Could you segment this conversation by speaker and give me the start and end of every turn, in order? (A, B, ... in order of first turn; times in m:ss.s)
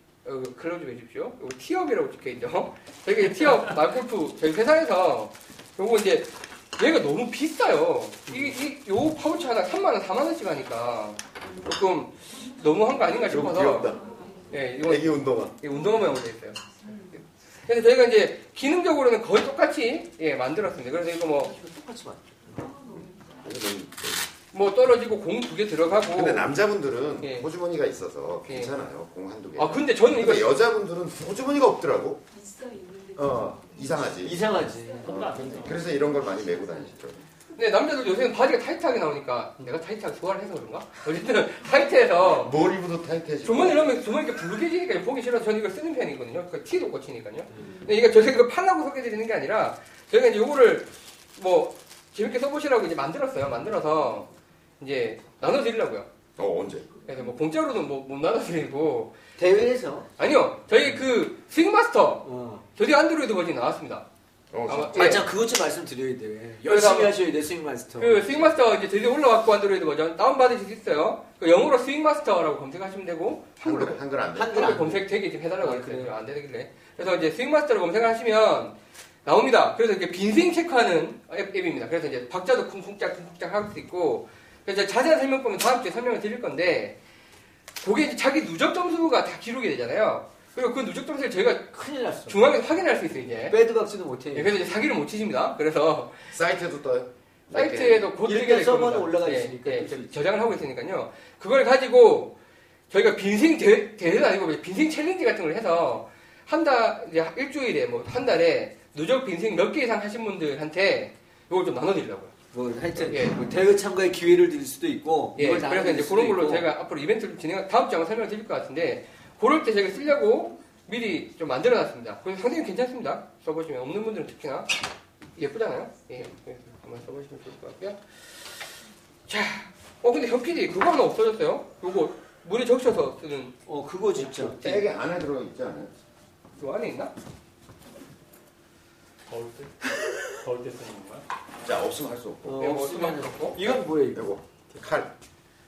0:00.2-0:14.0 A
0:12.3-0:14.8 B
0:13.2-0:14.2 C
0:14.5-0:21.5 A
0:14.8-0:15.6 C
0:15.7-0:17.2 B
0:21.4-0:22.8 D
0:22.7-0:23.3 B
0:23.0-0:24.3 C
0:24.5-0:26.5 A
0:26.0-0:32.2 C
0:27.2-0:27.5 A
0:28.5-0:28.8 A
0:29.6-0:30.5 A
0:32.3-0:36.9 B
0:33.2-0:37.2 C
0:34.2-0:35.2 D
0:35.0-0:35.9 E
0:37.6-0:42.6 A
0:42.2-0:44.0 C
0:43.4-0:56.1 A
0:47.5-0:47.8 D
0:56.4-0:56.9 C
0:57.0-0:59.2 A
0:59.4-1:00.1 D
1:00.2-1:04.1 A
1:02.2-1:02.6 D
1:04.5-1:05.2 C
1:04.7-1:05.3 A
1:04.9-1:08.6 D
1:06.6-1:07.2 A
1:08.0-1:27.0 A
1:13.6-1:14.9 C
1:14.3-1:15.1 D
1:15.6-1:16.2 D
1:27.8-1:31.8 A
1:31.7-1:32.6 D
1:32.3-1:33.6 A
1:33.4-1:34.6 D
1:34.3-1:36.3 A
1:36.3-1:38.1 C
1:37.5-1:42.4 A
1:38.2-1:40.3 D
1:42.9-1:52.3 A
1:52.5-1:56.7 D
1:53.0-1:53.4 A
1:55.4-2:04.8 A
2:05.4-2:08.6 A
2:09.3-2:13.6 A
2:13.7-2:14.8 D
2:14.2-2:14.9 A
2:14.2-2:15.9 C
2:16.6-2:17.1 A
2:19.3-2:21.3 E
2:21.6-2:22.7 C
2:22.4-2:24.3 D
2:22.6-2:23.7 A
2:24.1-2:25.1 C